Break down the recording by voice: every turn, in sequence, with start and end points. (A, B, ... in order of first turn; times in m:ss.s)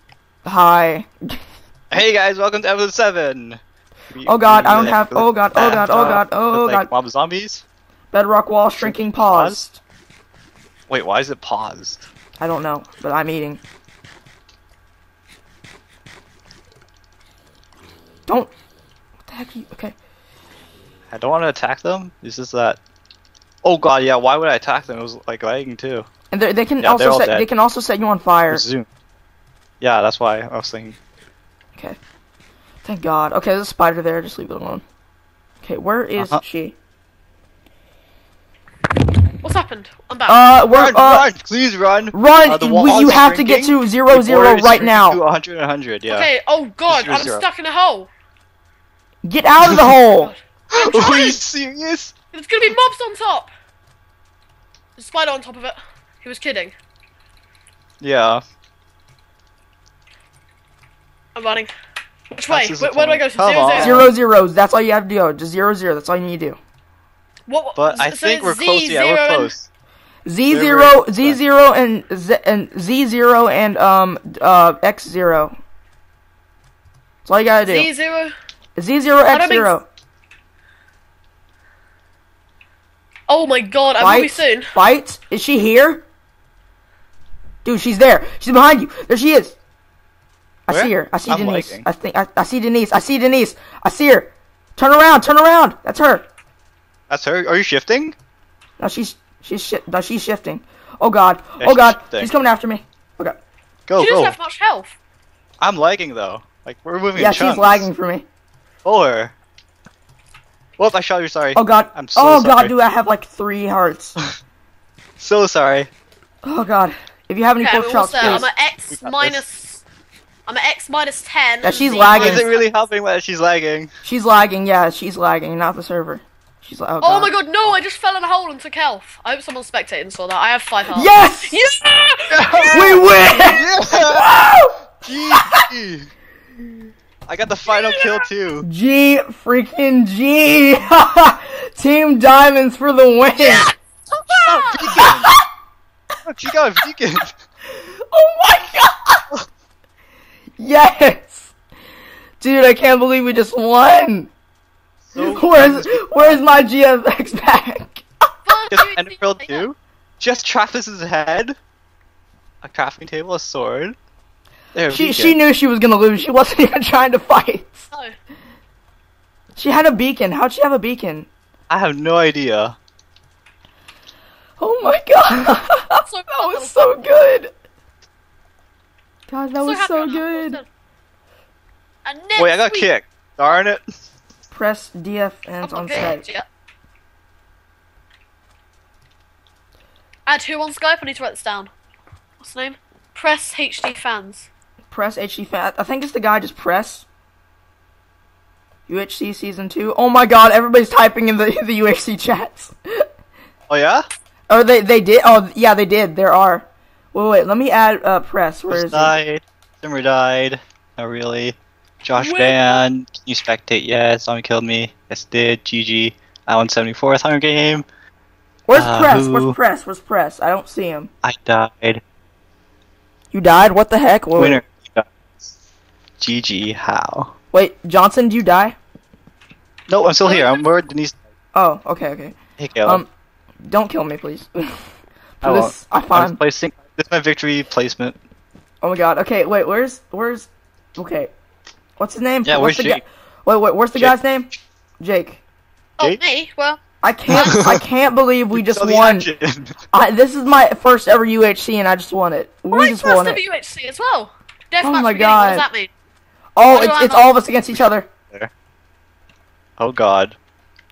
0:00.4-0:01.4 A
0:01.9-0:03.6 B
0:04.1-0:07.6 B
0:04.2-0:06.9 A
0:08.1-0:09.8 A
0:08.7-0:09.6 B
0:10.9-0:12.1 B
0:12.4-0:13.6 A
0:19.3-0:20.0 A
0:21.1-0:22.8 B
0:23.6-0:26.1 B
0:26.3-0:28.6 A
0:26.8-0:27.5 B
0:28.5-0:28.9 B
0:29.8-0:31.0 B
0:32.8-0:34.8 A
0:35.6-0:36.8 A
0:36.2-0:36.4 B
0:39.4-0:40.4 C
0:40.3-0:41.3 A
0:40.7-0:46.3 B
0:42.1-0:45.2 A
0:46.1-0:48.1 C
0:46.9-0:47.5 B
0:49.2-0:50.3 A
0:49.6-0:49.9 B
0:50.2-0:51.4 C
0:50.7-0:52.1 B
0:52.3-0:53.5 C
0:55.0-0:56.7 C
0:58.0-0:58.4 B
1:01.4-1:01.7 C
1:02.3-1:04.1 C
1:02.5-1:04.1 B
1:03.8-1:06.6 A
1:07.5-1:09.5 C
1:07.8-1:09.7 B
1:10.3-1:15.6 A
1:10.5-1:11.4 B
1:17.2-1:17.9 A
1:17.6-1:18.3 C
1:18.8-1:19.9 A
1:19.3-1:19.8 C
1:23.3-1:24.7 C
1:24.0-1:26.0 A
1:27.6-1:29.6 A
1:30.7-1:36.3 A
1:30.7-1:31.9 B
1:37.1-1:38.2 B
1:38.8-1:43.4 A
1:41.6-1:42.3 B
1:43.9-1:44.4 B
1:44.0-1:45.0 C
1:45.6-1:47.9 B
1:47.2-1:48.3 A
1:48.8-1:49.3 B
1:50.8-1:52.7 B
1:51.6-1:54.2 A
1:55.2-1:55.9 B
1:56.4-1:58.5 A
1:57.6-1:59.8 C
1:58.2-1:59.4 B
2:00.5-2:02.8 C
2:01.6-2:02.5 A
2:02.1-2:03.9 B
2:04.0-2:07.3 A
2:07.0-2:13.1 C
2:10.9-2:11.6 A
2:12.3-2:14.4 B
2:12.7-2:14.7 A
2:15.0-2:16.1 B
2:15.4-2:15.6 A
2:17.3-2:18.7 B
2:17.7-2:18.2 C
2:18.6-2:23.7 A
2:23.4-2:25.0 C
2:24.5-2:25.3 B
2:24.8-2:25.4 A
2:26.3-2:27.4 B
2:28.1-2:29.2 A
2:30.6-2:31.5 A
2:32.4-2:34.3 A
2:35.0-2:36.4 B
2:35.2-2:38.1 A
2:38.4-2:39.6 C
2:38.7-2:41.6 B
2:42.6-2:44.0 B
2:44.7-2:45.4 B
2:44.9-2:47.9 A
2:49.6-2:51.3 A
2:51.7-2:52.8 B
2:54.6-2:57.5 A
2:56.0-2:56.8 C
2:59.3-3:00.6 A
2:59.6-3:00.6 C
3:02.0-3:02.9 C
3:02.4-3:03.8 B
3:04.5-3:06.3 A
3:05.6-3:06.5 C
3:10.3-3:11.7 C
3:12.4-3:14.5 C
3:14.9-3:17.1 A
3:18.9-3:23.0 A
3:23.7-3:24.1 B
3:24.5-3:29.2 A
3:28.7-3:37.9 B
3:32.2-3:32.8 C
3:38.7-3:41.1 A
3:38.7-3:39.6 B
3:41.2-3:42.0 B
3:43.3-3:44.6 A
3:44.4-3:45.5 B
3:46.2-3:47.3 B
3:47.5-3:48.8 A
3:49.9-3:51.2 B
3:50.2-3:50.7 C
3:51.5-3:53.1 A
3:52.6-3:53.0 B
3:53.7-3:54.8 A
3:55.4-3:56.4 A
3:55.4-3:58.2 B
3:58.8-4:01.3 A
4:02.0-4:04.5 A
4:02.4-4:03.0 B
4:05.0-4:05.4 A
4:06.0-4:07.6 C
4:07.0-4:09.3 A
4:07.3-4:07.8 B
4:08.5-4:09.8 B
4:09.9-4:13.4 A
4:12.7-4:15.9 C
4:14.8-4:15.7 A
4:16.6-4:18.1 A
4:16.7-4:17.3 C
4:19.8-4:20.4 B